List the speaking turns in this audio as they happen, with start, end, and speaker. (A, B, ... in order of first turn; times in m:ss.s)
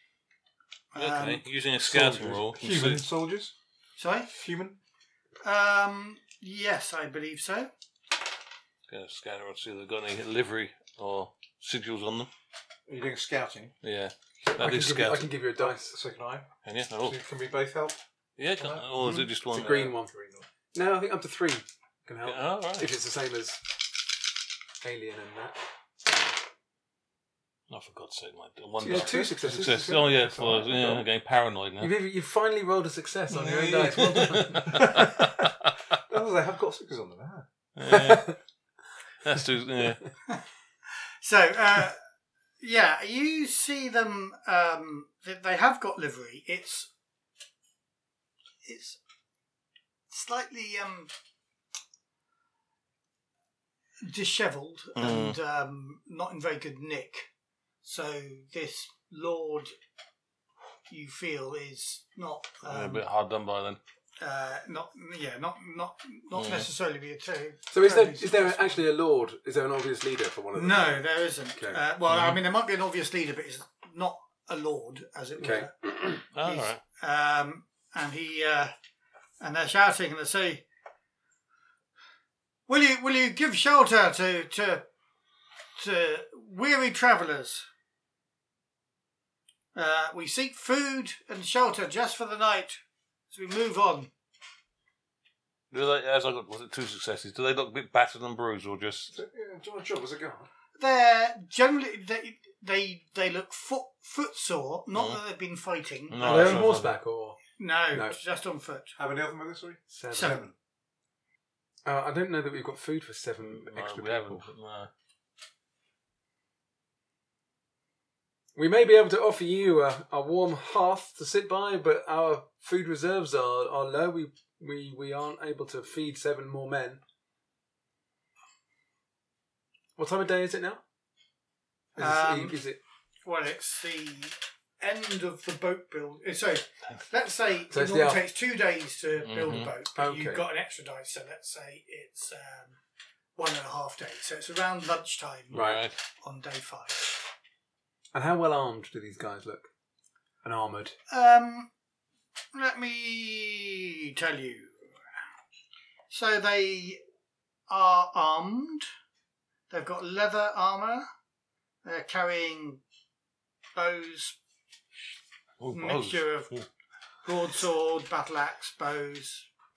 0:00.9-0:01.4 A
0:00.9-0:03.0 B
0:01.8-0:03.5 C
0:04.0-0:04.3 A
0:04.3-0:04.8 C
0:05.4-0:07.7 A
0:08.9-0:12.3 B
0:12.9-0:13.7 C
0:13.8-0:15.3 B
0:14.6-0:16.0 D
0:15.6-0:16.5 C
0:16.6-0:17.2 B
0:17.0-0:18.0 C
0:18.4-0:19.9 B
0:18.5-0:20.5 C
0:19.0-0:20.1 D
0:20.7-0:23.6 D
0:22.2-0:22.9 B
0:24.8-0:25.6 D
0:27.7-0:31.9 B
0:28.8-0:29.4 D
0:28.8-0:31.1 C
0:31.8-0:35.0 D
0:33.3-0:35.5 B
0:36.1-0:37.5 C
0:37.8-0:38.4 B
0:39.2-0:40.0 B
0:41.2-0:42.0 A
0:42.6-0:46.9 A
0:48.6-0:49.0 A
0:50.1-0:51.1 A
0:54.0-0:57.3 A
0:54.9-0:55.4 B
0:57.8-0:59.7 A
1:00.9-1:03.0 A
1:02.6-1:03.8 B
1:04.2-1:08.8 A
1:06.3-1:06.7 B
1:07.7-1:11.0 D
1:10.5-1:18.7 A
1:11.6-1:11.8 D
1:12.1-1:12.4 B
1:15.4-1:16.2 D
1:16.3-1:16.8 B
1:19.4-1:20.6 A
1:22.7-1:24.8 A
1:25.8-1:27.7 A
1:29.7-1:34.1 A
1:35.7-1:39.1 B
1:39.1-1:40.5 C
1:40.8-1:46.6 A
1:44.9-1:45.2 B
1:46.1-1:46.9 B
1:46.2-1:47.4 D
1:47.6-1:49.0 A
1:47.9-1:48.2 D
1:49.0-1:50.5 C
1:49.9-1:50.4 D
1:50.1-1:50.4 A
1:51.8-1:54.5 D
1:53.4-1:54.9 B
1:58.5-2:07.0 D
2:10.0-2:10.8 D
2:11.9-2:12.8 D
2:12.0-2:12.6 A
2:13.2-2:22.8 A
2:17.7-2:18.2 D
2:19.2-2:19.7 B
2:19.9-2:20.5 D
2:23.4-2:27.1 A
2:25.5-2:25.8 D
2:25.5-2:25.9 B
2:28.1-2:29.7 D
2:30.4-2:31.0 D
2:31.1-2:31.7 A
2:32.5-2:34.8 A
2:36.1-2:37.0 A
2:37.7-2:38.9 A
2:39.7-2:41.0 A
2:41.8-2:42.8 A
2:43.7-2:44.4 A
2:45.6-2:46.6 B
2:45.7-2:46.6 A
2:47.2-2:49.5 A